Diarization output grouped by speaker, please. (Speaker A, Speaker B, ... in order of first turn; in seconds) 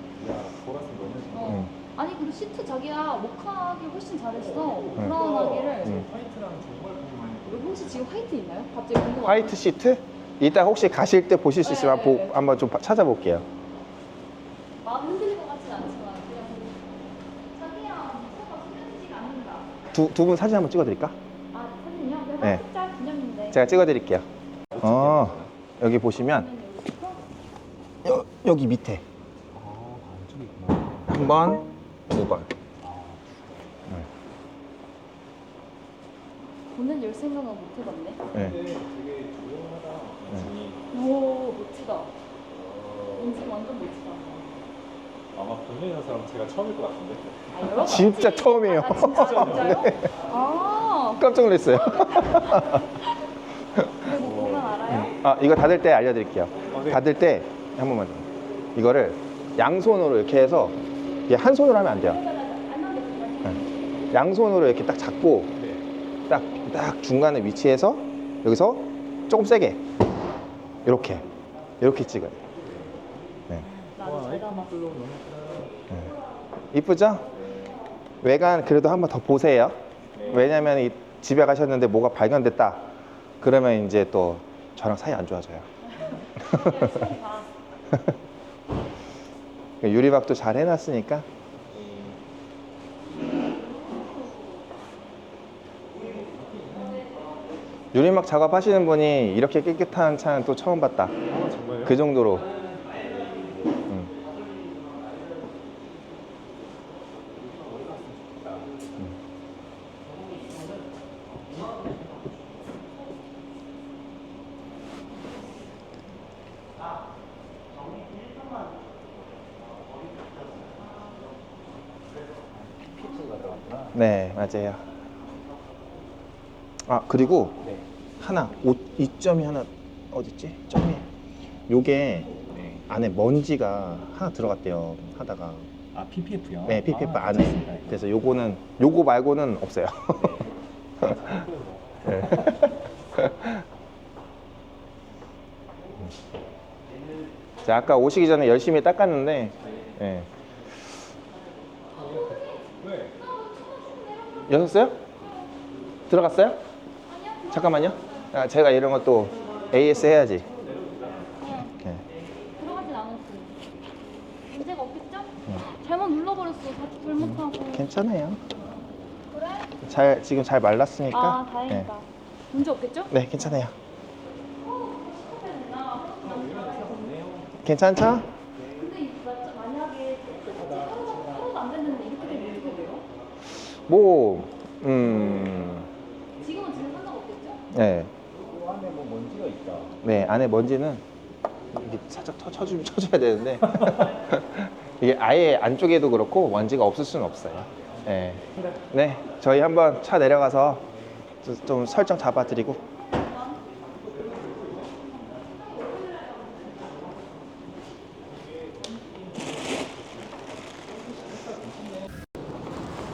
Speaker A: 0.1-1.7, 4.4-8.1, 24.7-25.5, 29.6-31.2, 32.8-33.5, 38.3-40.8, 42.5-43.5, 45.3-47.5, 49.1-49.9, 54.1-54.8, 56.7-57.0, 65.6-65.8, 72.6-73.0, 74.0-75.8, 80.2-80.5, 91.7-92.2, 96.2-97.0, 101.3-102.0, 107.4-108.8, 123.0-124.0, 132.4-132.8, 135.9-138.0, 140.2-142.7, 152.0-153.2, 160.7-161.3, 176.2-177.5, 180.4-181.4, 188.4-190.0, 204.3-204.7
Speaker B: 1.3-6.1, 7.5-9.6, 11.6-12.4, 14.8-19.8, 21.5-23.8, 26.1-27.3, 36.7-38.2, 40.9-42.1, 43.2-44.6, 47.5-52.9, 53.9-55.1, 62.1-63.7, 74.0-74.7, 86.0-87.5, 93.9-94.5, 151.9-154.5, 155.2-155.5, 157.1-158.3, 161.4-161.7, 162.6-163.7, 164.5-167.9, 169.3-169.7, 171.1-173.2, 174.6-177.3, 178.7-183.1, 186.4-187.7, 205.8-206.4
Speaker C: 1.4-1.7, 9.2-13.5, 19.9-21.2, 23.5-24.3, 24.8-26.5, 28.0-29.0, 31.1-32.5, 38.3-38.6, 47.8-50.1, 51.2-52.9, 53.8-54.1, 54.9-62.2, 63.5-65.6, 66.3-69.9, 70.8-71.3, 71.8-72.4, 75.9-76.2, 76.7-77.3, 78.2-82.9, 83.4-85.7, 86.4-87.0, 89.8-91.3, 97.9-101.2, 101.8-102.5, 103.9-104.1, 123.9-124.8, 126.8-127.7, 128.2-131.1, 131.7-132.3, 132.9-135.7, 136.7-140.4, 141.0-141.4, 142.1-143.6, 147.6-150.3, 154.5-155.0, 156.1-156.6, 157.5-160.5, 167.2-168.4, 169.8-171.9, 173.1-173.8, 177.6-178.3, 183.9-185.9, 187.7-188.1, 190.0-191.0, 191.7-200.9, 201.4-202.8